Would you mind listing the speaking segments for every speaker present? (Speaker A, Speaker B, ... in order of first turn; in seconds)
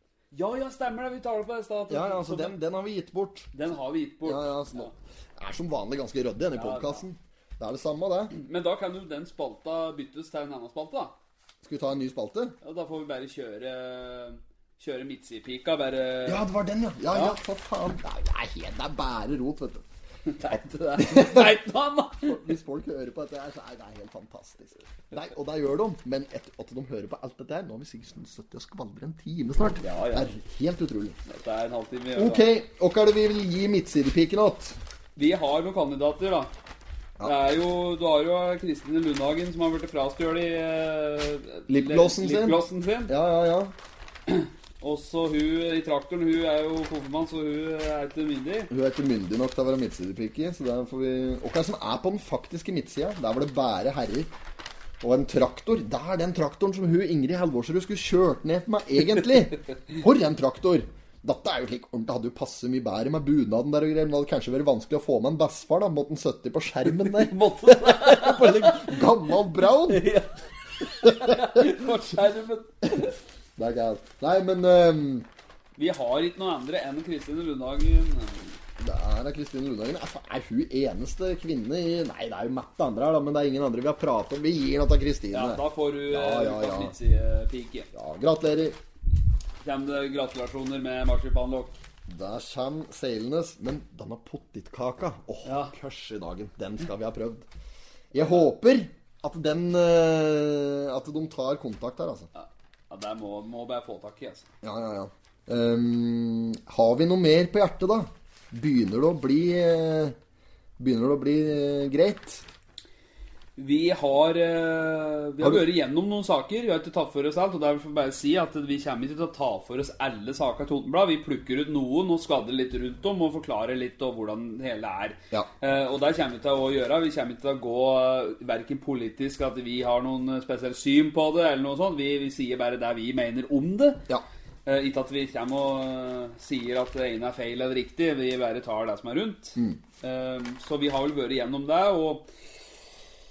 Speaker A: 0.3-2.6, 3.5-4.9, 6.5-7.0, 8.3-11.2, 12.6-16.5, 17.1-17.4, 20.3-22.4, 29.8-30.3, 31.3-32.5, 35.2-36.5, 37.2-43.1, 44.3-48.7, 66.9-69.0, 69.9-73.2, 75.8-78.6, 85.3-87.9, 89.6-91.8, 95.5-95.7, 102.3-104.5, 113.6-134.0, 134.7-142.3
Speaker B: 1.9-3.5, 4.2-8.3, 11.6-12.6, 16.3-19.9, 21.0-21.6, 22.2-31.2, 32.2-34.8, 41.7-43.7, 48.7-54.3, 55.0-70.1, 71.0-71.7, 73.6-75.3, 78.8-87.0, 87.9-88.8, 92.1-97.5, 98.1-102.3, 104.6-110.2, 110.8-112.5